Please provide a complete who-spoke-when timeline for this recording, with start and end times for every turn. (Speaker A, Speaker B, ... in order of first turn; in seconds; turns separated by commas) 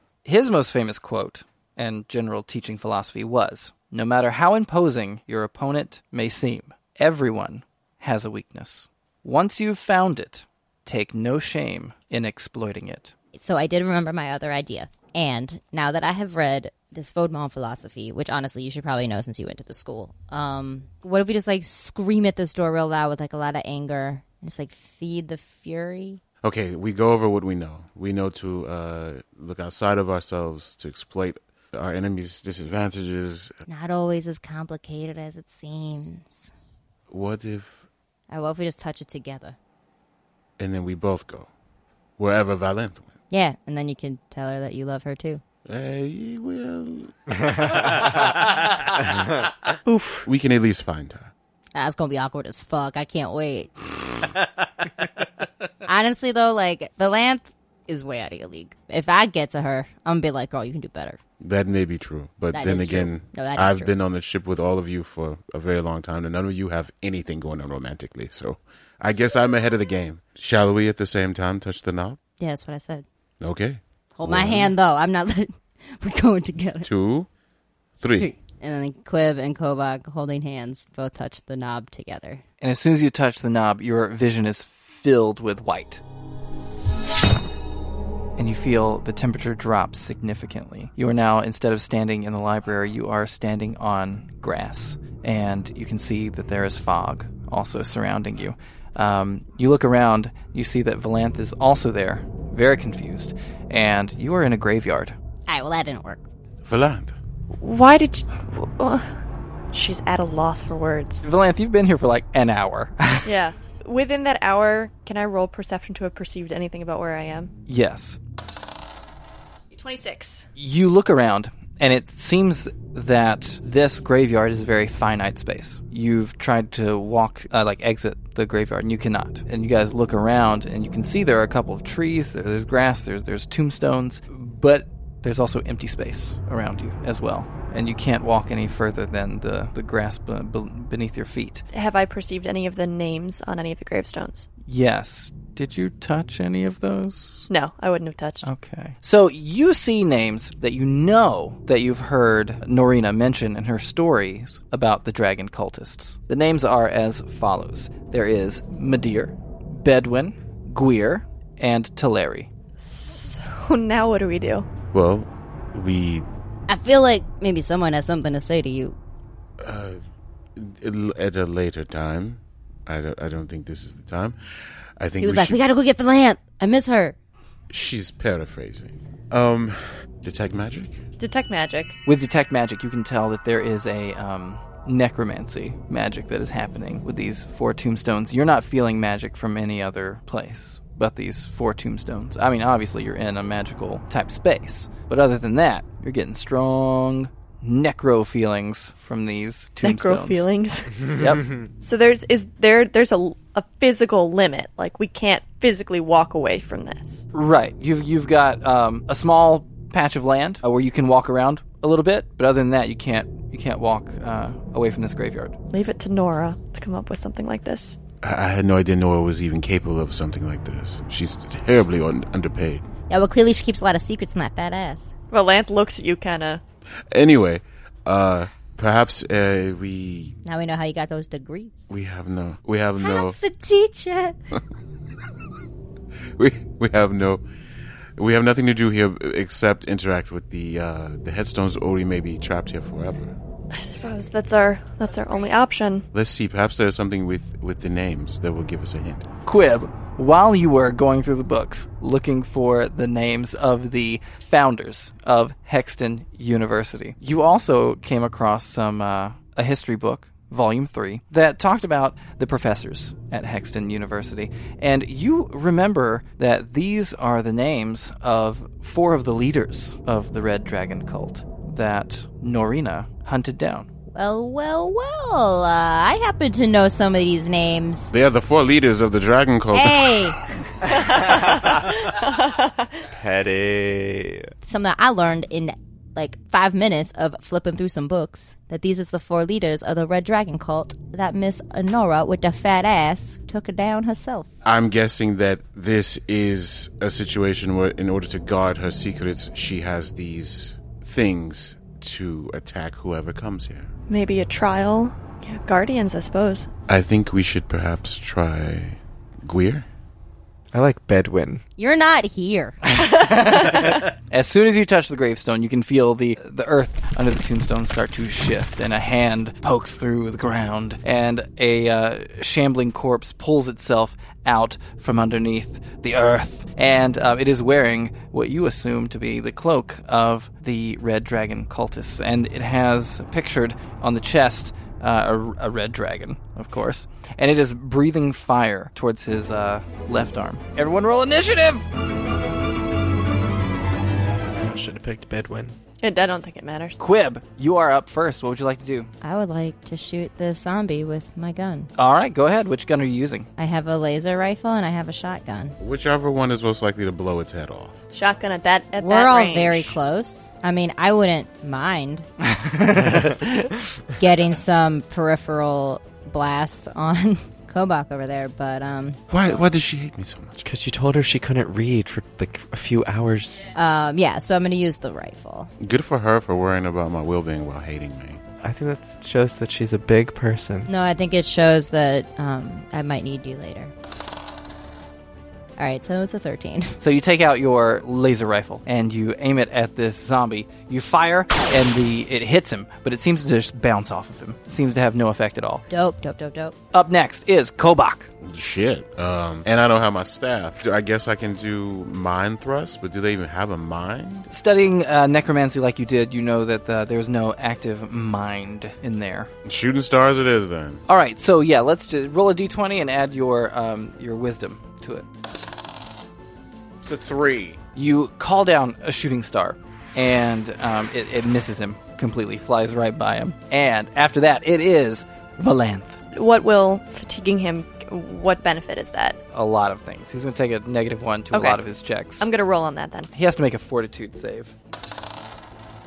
Speaker A: 0.2-13.1, Speaker B: 13.3-26.2, Speaker C: 26.4-33.5, Speaker B: 33.7-36.5, Speaker C: 37.1-37.9, Speaker B: 38.3-39.6, Speaker C: 40.6-41.5, Speaker C: 42.2-43.1, Speaker B: 43.3-45.4, Speaker C: 45.6-49.6, Speaker D: 49.9-50.3, Speaker C: 50.3-51.3, Speaker B: 51.8-54.4, Speaker B: 55.9-61.2, Speaker C: 61.4-72.2, Speaker B: 62.5-63.9, Speaker B: 72.4-73.0, Speaker C: 73.4-74.7, Speaker B: 74.2-76.9, Speaker C: 76.8-77.3, Speaker C: 78.0-78.3, Speaker B: 78.2-82.4, Speaker A: 82.6-86.0, Speaker A: 88.4-105.2, Speaker B: 105.5-106.2, Speaker C: 106.6-107.2, Speaker D: 107.6-109.1, Speaker D: 109.7-111.2, Speaker A: 111.2-113.3, Speaker D: 113.3-117.5, Speaker A: 117.7-118.2, Speaker D: 119.7-120.5, Speaker A: 120.6-141.7, Speaker D: 141.7-144.5, Speaker A: 144.7-147.5, Speaker D: 147.5-148.4, Speaker A: 148.4-162.5, Speaker D: 162.8-164.7, Speaker C: 164.9-166.2, Speaker B: 166.7-169.0, Speaker C: 169.6-170.0, Speaker C: 170.6-174.4, Speaker C: 175.0-175.6, Speaker B: 175.2-177.2, Speaker C: 177.7-181.0, Speaker D: 181.2-182.0, Speaker A: 182.1-200.5, Speaker D: 199.8-207.2, Speaker A: 201.2-201.6, Speaker A: 207.3-215.6, Speaker D: 215.7-218.0, Speaker C: 218.2-222.8, Speaker B: 223.1-225.1, Speaker D: 225.3-226.6, Speaker C: 227.1-230.3, Speaker B: 230.4-231.9, Speaker C: 231.9-233.4, Speaker B: 233.0-234.6, Speaker C: 236.4-237.4, Speaker C: 238.2-243.3, Speaker D: 243.7-246.1, Speaker C: 246.1-249.3, Speaker A: 249.5-273.9, Speaker B: 274.1-278.1, Speaker C: 278.1-280.2, Speaker B: 279.7-280.4, Speaker E: 280.9-281.8, Speaker D: 282.1-282.9, Speaker E: 283.1-284.5, Speaker B: 284.6-294.5, Speaker C: 294.6-303.9, Speaker D: 304.1-306.7, Speaker C: 306.9-309.9, Speaker E: 310.7-311.6, Speaker B: 311.8-312.8, Speaker A: 312.9-341.9, Speaker E: 344.6-345.8, Speaker D: 346.0-347.0, Speaker A: 347.0-349.1, Speaker B: 349.2-351.9, Speaker A: 352.0-353.5, Speaker B: 353.6-355.8, Speaker C: 355.8-358.0, Speaker D: 358.1-360.0, Speaker B: 359.0-362.3, Speaker A: 362.5-363.7, Speaker B: 364.2-369.2, Speaker C: 369.3-370.7, Speaker E: 370.7-373.7, Speaker B: 373.7-375.7, Speaker C: 375.8-378.4, Speaker E: 378.6-380.9, Speaker B: 380.9-383.9, Speaker B: 385.8-387.0, Speaker A: 387.0-395.9, Speaker B: 395.9-396.8, Speaker A: 396.9-398.3, Speaker C: 398.4-404.5, Speaker A: 404.5-409.5, Speaker C: 409.6-411.0, Speaker A: 411.1-415.2, Speaker C: 417.0-417.8, Speaker A: 417.9-426.2, Speaker D: 426.3-429.4, Speaker A: 429.5-432.5, Speaker D: 431.5-431.8, Speaker D: 432.4-433.3, Speaker A: 433.3-434.7